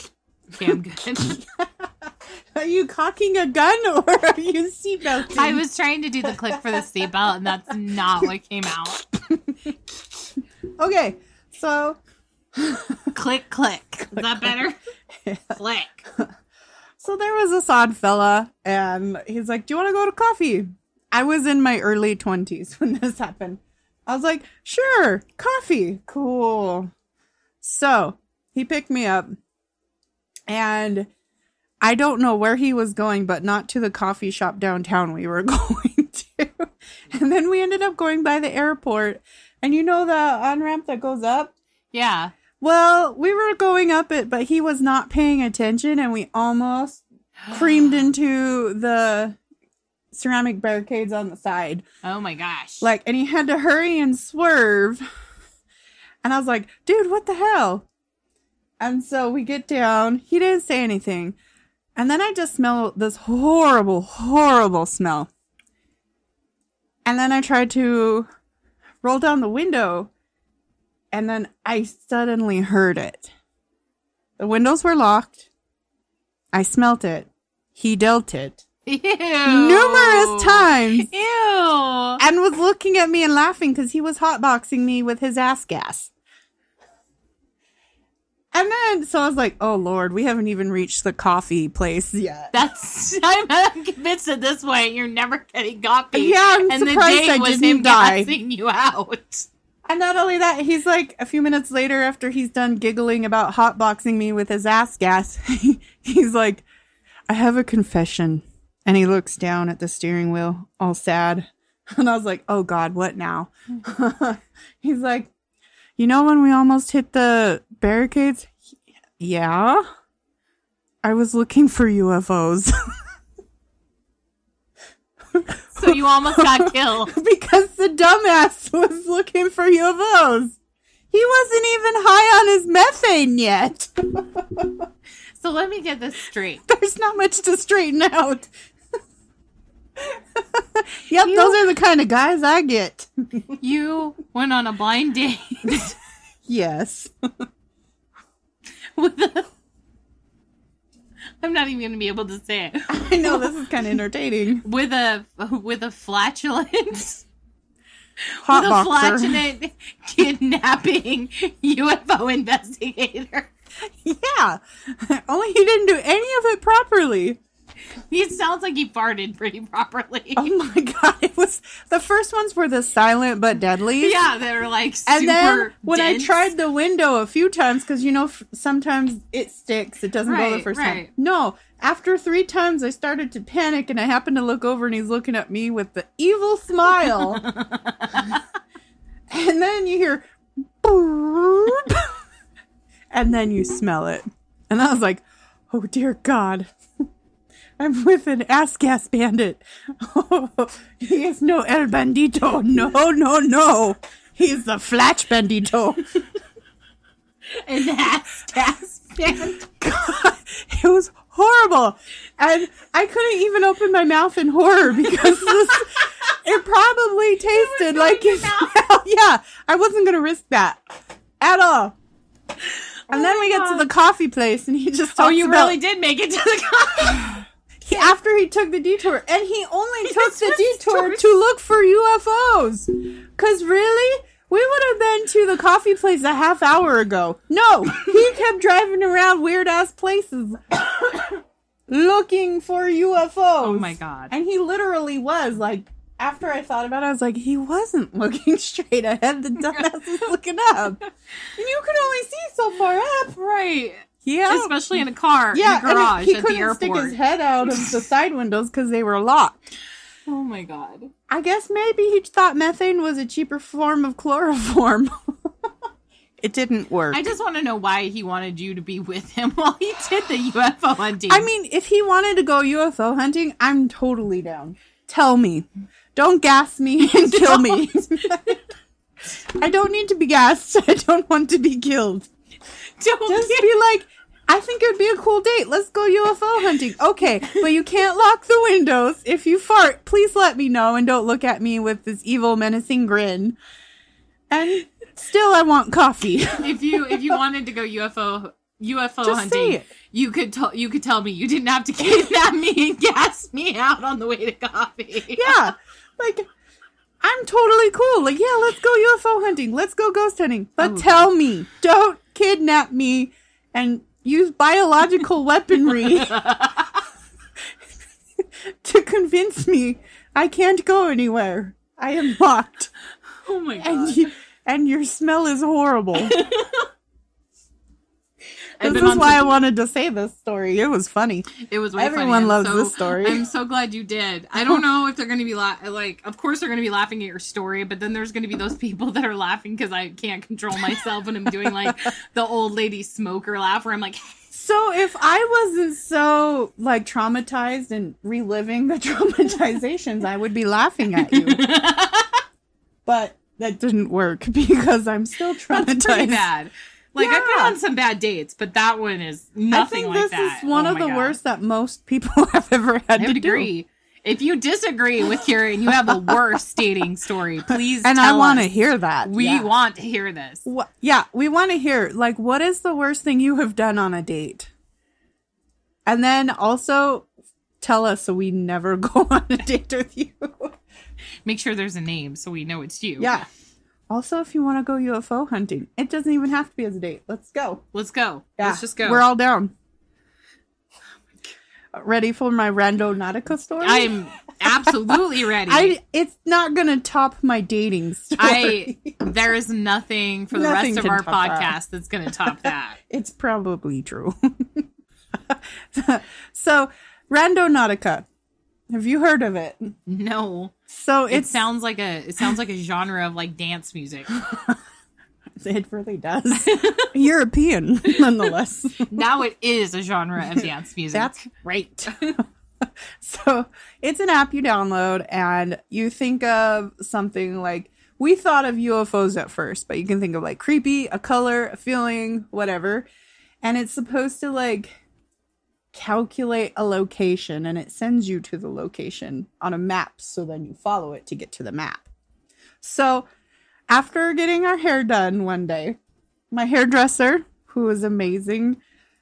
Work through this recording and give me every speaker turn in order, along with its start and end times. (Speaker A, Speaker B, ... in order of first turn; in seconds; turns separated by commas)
Speaker A: 0.5-1.4, Speaker B: 1.1-5.6, Speaker A: 5.3-9.0, Speaker B: 6.5-6.8, Speaker B: 9.2-12.0, Speaker B: 12.6-13.1, Speaker A: 13.1-14.8, Speaker B: 15.2-15.6, Speaker A: 15.5-16.0, Speaker B: 17.0-26.9, Speaker B: 27.6-29.4, Speaker B: 30.5-31.1, Speaker B: 31.8-41.5, Speaker A: 41.9-42.3, Speaker B: 42.6-49.4, Speaker A: 47.4-48.1, Speaker B: 50.1-51.8, Speaker A: 52.0-52.8, Speaker B: 52.8-55.0, Speaker B: 56.2-57.9, Speaker B: 58.8-61.4, Speaker B: 62.0-65.3, Speaker B: 67.0-68.3, Speaker B: 69.0-70.1, Speaker B: 71.1-73.3, Speaker B: 74.4-75.5, Speaker B: 76.5-78.7, Speaker A: 78.9-82.2, Speaker B: 79.5-81.1, Speaker B: 82.2-86.1, Speaker B: 88.5-92.5, Speaker A: 92.5-99.5, Speaker B: 96.1-98.3, Speaker B: 99.9-106.7, Speaker B: 107.3-115.3, Speaker B: 116.0-119.8, Speaker B: 121.0-122.7, Speaker B: 125.3-130.6, Speaker A: 125.8-127.2, Speaker B: 131.1-134.8, Speaker A: 135.4-136.6, Speaker B: 136.7-138.5, Speaker B: 140.0-143.6, Speaker A: 141.2-141.6, Speaker A: 143.6-145.9, Speaker B: 146.5-147.1, Speaker A: 148.9-149.5, Speaker A: 151.4-153.5, Speaker B: 152.9-154.7, Speaker A: 154.6-157.2, Speaker A: 158.3-163.5, Speaker B: 158.4-159.4, Speaker B: 163.8-167.4, Speaker A: 168.1-170.5, Speaker B: 170.4-174.2, Speaker A: 174.0-176.5, Speaker B: 175.1-187.5, Speaker A: 180.2-181.1, Speaker A: 187.4-188.4, Speaker B: 189.3-192.1, Speaker B: 193.1-196.7, Speaker B: 197.8-206.2, Speaker A: 207.5-209.6, Speaker B: 209.6-220.8, Speaker A: 217.5-218.8, Speaker B: 221.4-221.9, Speaker A: 223.1-223.9, Speaker B: 223.1-225.8, Speaker A: 225.1-228.1, Speaker B: 227.8-251.0, Speaker A: 230.1-231.3, Speaker A: 243.6-244.3, Speaker B: 251.6-253.4, Speaker A: 253.3-257.9, Speaker B: 254.2-254.8, Speaker B: 255.5-259.6, Speaker A: 260.3-261.1, Speaker B: 261.3-265.7, Speaker B: 266.4-267.2, Speaker A: 267.1-271.5, Speaker B: 271.3-278.6, Speaker A: 277.0-278.0, Speaker B: 279.6-282.3, Speaker A: 283.0-283.7, Speaker B: 283.3-293.6, Speaker B: 294.5-297.3, Speaker A: 296.6-305.6, Speaker B: 299.2-299.9, Speaker B: 305.3-306.5, Speaker B: 307.2-316.4, Speaker A: 310.8-311.3, Speaker A: 316.1-316.8, Speaker B: 318.4-322.9, Speaker A: 323.5-324.3, Speaker B: 323.8-326.4, Speaker A: 326.2-326.9, Speaker A: 328.8-329.6, Speaker B: 328.8-333.4, Speaker A: 331.6-344.3, Speaker B: 341.6-341.9, Speaker B: 344.5-351.7, Speaker A: 351.2-352.4, Speaker B: 353.1-356.5, Speaker A: 355.7-361.4, Speaker B: 357.2-357.8, Speaker B: 359.7-363.7, Speaker A: 363.2-368.7, Speaker B: 365.9-366.4, Speaker B: 368.0-369.7, Speaker A: 369.2-370.6, Speaker B: 370.6-374.7, Speaker B: 376.1-377.3, Speaker B: 377.8-380.8, Speaker A: 381.5-383.4, Speaker B: 383.2-383.5, Speaker B: 384.1-387.8, Speaker A: 387.9-389.3, Speaker B: 388.6-389.7, Speaker B: 391.9-399.2, Speaker A: 393.8-396.0, Speaker A: 398.4-403.0, Speaker B: 400.5-401.8, Speaker B: 402.4-408.3, Speaker B: 408.9-409.9, Speaker A: 410.1-410.8, Speaker B: 410.9-411.6, Speaker A: 411.3-414.3, Speaker B: 414.3-414.8, Speaker B: 415.6-419.2, Speaker A: 416.6-417.1, Speaker A: 419.1-421.4, Speaker B: 420.6-433.1, Speaker B: 433.6-435.0, Speaker B: 435.9-442.1, Speaker B: 442.8-443.3, Speaker B: 443.9-446.0, Speaker B: 446.5-448.8